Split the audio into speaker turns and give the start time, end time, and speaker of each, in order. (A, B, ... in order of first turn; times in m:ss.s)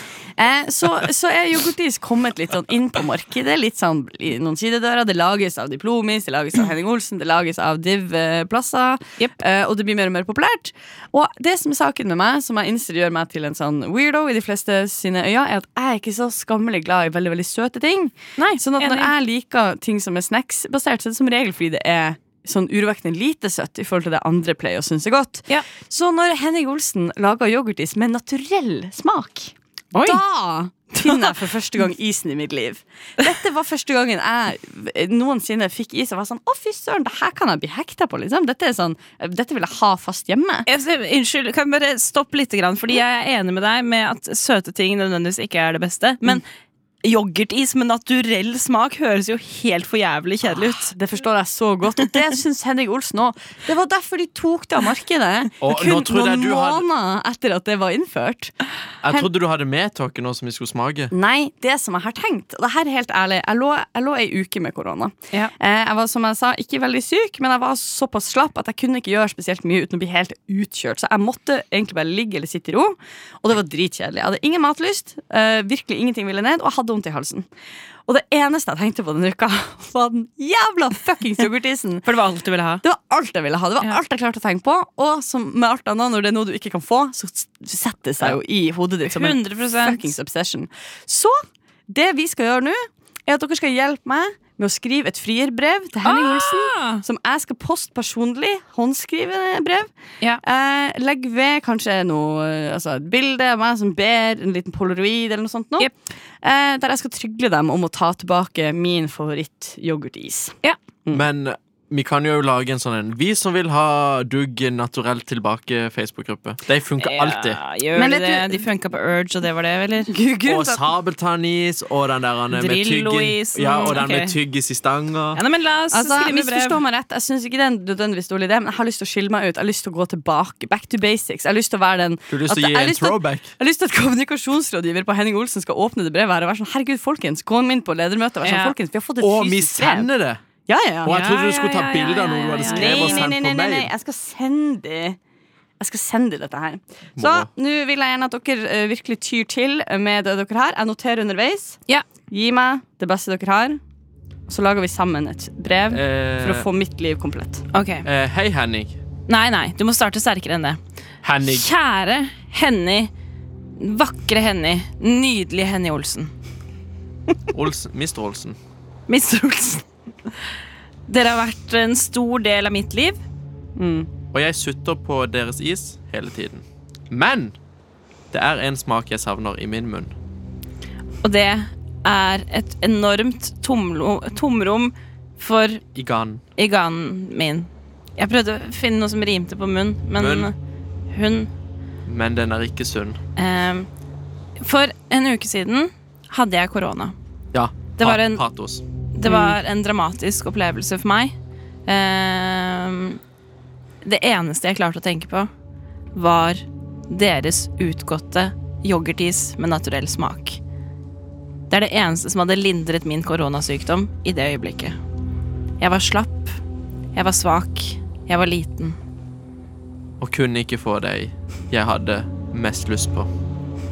0:00.4-0:40.7 A
0:18.4-0:19.1 B
0:29.9-0:30.2 B
0:31.0-0:31.3 B
0:40.7-0:46.4 B
0:47.0-0:50.9 B
0:50.5-0:58.5 A
0:55.6-0:56.8 C
0:59.0-1:01.1 C
1:01.1-1:17.4 A
1:18.1-1:22.1 A
1:22.0-1:22.8 B
1:22.8-1:39.9 A
1:29.0-1:30.0 B
1:36.0-1:37.0 B
1:40.4-1:45.9 A
1:46.4-1:51.2 A
1:51.1-1:57.6 C
1:57.0-2:00.1 B
1:57.9-1:58.6 A
2:00.1-2:00.8 A
2:00.4-2:05.4 C
2:02.5-2:04.3 B
2:05.3-2:06.8 B
2:05.9-2:20.1 A
2:12.3-2:13.5 C
2:18.4-2:18.7 B
2:19.2-2:20.4 C
2:20.7-2:21.2 A
2:21.0-2:23.9 C
2:21.0-2:23.2 B
2:22.7-2:25.2 A
2:25.8-2:31.8 A
2:27.2-2:27.5 C
2:32.3-2:33.8 A
2:34.5-2:37.6 A
2:35.9-2:36.7 C
2:37.7-2:38.1 B
2:38.0-2:39.0 C
2:39.3-2:40.8 B
2:41.2-2:41.6 C
2:41.4-2:43.1 B
2:43.8-2:46.3 B
2:47.5-2:48.6 C
2:49.1-2:49.8 B
2:51.1-2:53.2 B
2:53.8-2:54.1 A
2:54.3-2:57.6 C
2:58.3-3:00.1 C
3:01.2-3:05.8 B
3:05.9-3:06.4 C
3:06.6-3:10.5 B
3:10.2-3:10.5 C
3:11.1-3:11.5 B
3:12.0-3:13.2 C
3:13.4-3:13.9 B
3:14.6-3:17.1 B
3:17.5-3:18.8 C
3:18.0-3:18.4 B
3:19.1-3:21.3 B
3:19.2-3:19.6 A
3:21.8-3:23.2 B
3:24.0-3:25.5 B
3:26.1-3:30.6 B
3:31.7-3:35.0 B
3:35.8-3:36.6 B
3:37.1-3:39.0 B
3:40.2-3:43.3 C